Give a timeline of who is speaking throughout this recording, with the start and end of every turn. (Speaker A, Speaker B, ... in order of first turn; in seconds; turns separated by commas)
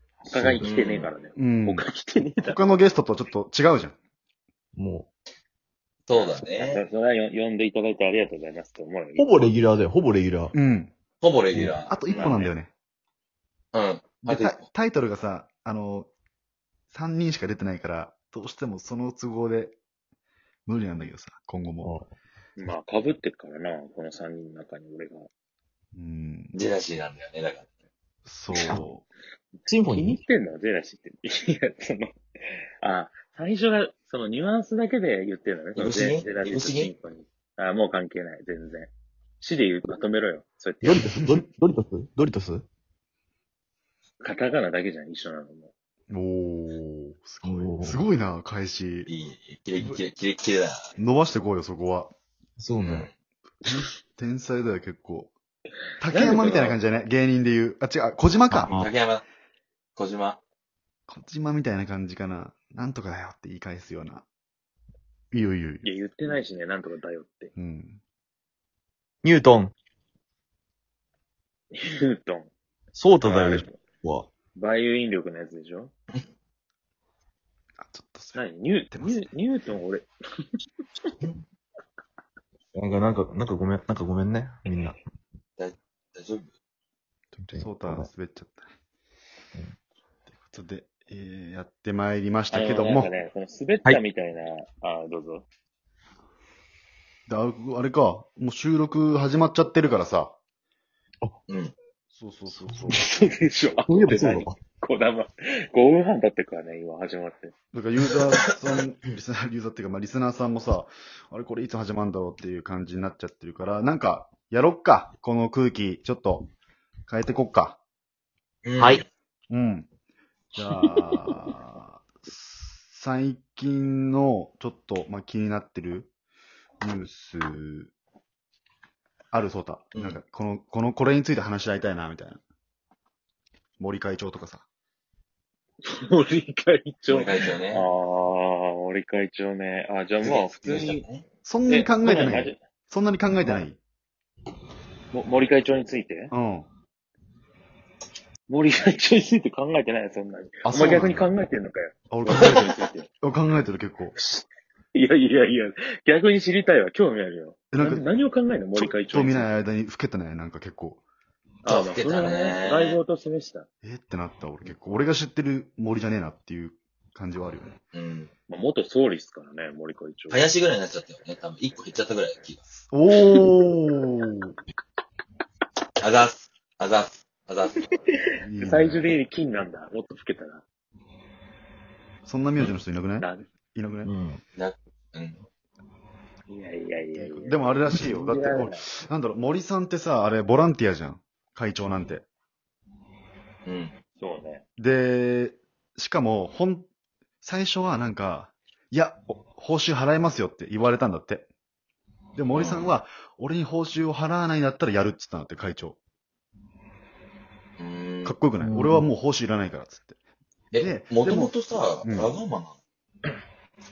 Speaker A: 0.2-2.7, Speaker B: 0.3-0.7, Speaker C: 0.6-1.1, Speaker D: 1.4-1.9, Speaker D: 2.4-4.0, Speaker B: 4.8-5.1, Speaker C: 6.1-6.9, Speaker A: 6.1-9.2, Speaker B: 9.2-10.5, Speaker D: 10.5-10.9, Speaker C: 11.2-12.5, Speaker B: 11.5-11.9, Speaker D: 11.9-12.7, Speaker A: 12.1-12.5, Speaker C: 13.7-14.6, Speaker D: 14.2-16.1, Speaker D: 16.9-19.8, Speaker D: 20.7-21.9, Speaker B: 21.8-22.1, Speaker A: 22.6-25.3, Speaker D: 25.9-26.6, Speaker C: 26.5-27.7, Speaker D: 28.2-29.1, Speaker B: 29.7-30.2, Speaker A: 29.9-32.2, Speaker A: 32.8-41.1, Speaker C: 35.8-36.9, Speaker B: 40.8-42.6, Speaker A: 44.2-45.7, Speaker D: 46.1-49.1, Speaker B: 47.4-48.0, Speaker C: 49.1-50.8, Speaker D: 51.0-52.1, Speaker B: 52.6-53.1, Speaker C: 52.8-53.1, Speaker D: 53.7-55.3, Speaker D: 56.0-58.8, Speaker A: 56.1-56.8, Speaker B: 58.5-58.9, Speaker C: 58.7-59.2, Speaker C: 60.0-60.4, Speaker D: 61.1-64.3, Speaker D: 65.3-65.9, Speaker A: 65.8-67.5, Speaker D: 67.6-68.0, Speaker B: 69.2-69.7, Speaker A: 71.7-72.5, Speaker B: 73.0-74.3, Speaker A: 73.2-73.8, Speaker A: 74.5-75.9, Speaker D: 77.8-79.3, Speaker A: 78.3-80.4, Speaker B: 82.7-85.0, Speaker C: 85.6-86.5, Speaker B: 87.4-88.1, Speaker D: 87.5-88.7, Speaker D: 90.3-93.1, Speaker A: 92.5-95.5, Speaker D: 97.3-100.3, Speaker C: 101.5-101.7, Speaker D: 102.1-103.0, Speaker A: 102.9-107.5, Speaker B: 103.9-104.6, Speaker D: 107.7-116.5, Speaker D: 117.1-117.8, Speaker C: 118.7-119.1, Speaker B: 118.8-119.0, Speaker D: 119.5-119.9, Speaker D: 120.5-126.1, Speaker D: 126.8-127.9, Speaker D: 129.3-132.4, Speaker C: 129.9-130.2, Speaker D: 133.8-134.7, Speaker A: 135.9-141.0, Speaker C: 137.1-137.8, Speaker C: 140.2-141.2, Speaker D: 141.4-143.8, Speaker A: 141.7-142.6, Speaker A: 145.1-146.3, Speaker D: 146.3-146.7, Speaker A: 148.5-153.1, Speaker D: 150.6-151.3, Speaker D: 152.1-154.2, Speaker A: 154.2-159.5, Speaker D: 157.7-158.1, Speaker D: 158.8-161.0, Speaker C: 161.7-163.0, Speaker A: 161.7-163.7, Speaker D: 163.8-167.8, Speaker C: 167.9-168.3, Speaker A: 168.5-170.5, Speaker C: 170.3-172.6, Speaker D: 172.7-174.5, Speaker C: 176.0-177.9, Speaker D: 178.4-179.2, Speaker A: 178.6-180.6, Speaker D: 182.3-184.1, Speaker A: 183.2-183.4, Speaker B: 184.0-184.4, Speaker C: 184.6-185.4, Speaker A: 186.5-188.8, Speaker D: 187.2-192.3, Speaker C: 193.7-193.9, Speaker A: 194.2-194.6, Speaker D: 194.8-196.9, Speaker D: 197.4-201.5, Speaker D: 202.4-206.0, Speaker C: 202.5-202.9, Speaker C: 207.8-208.4, Speaker D: 208.2-210.2, Speaker B: 208.6-209.1, Speaker C: 210.7-212.8, Speaker D: 210.8-211.5, Speaker D: 212.0-212.3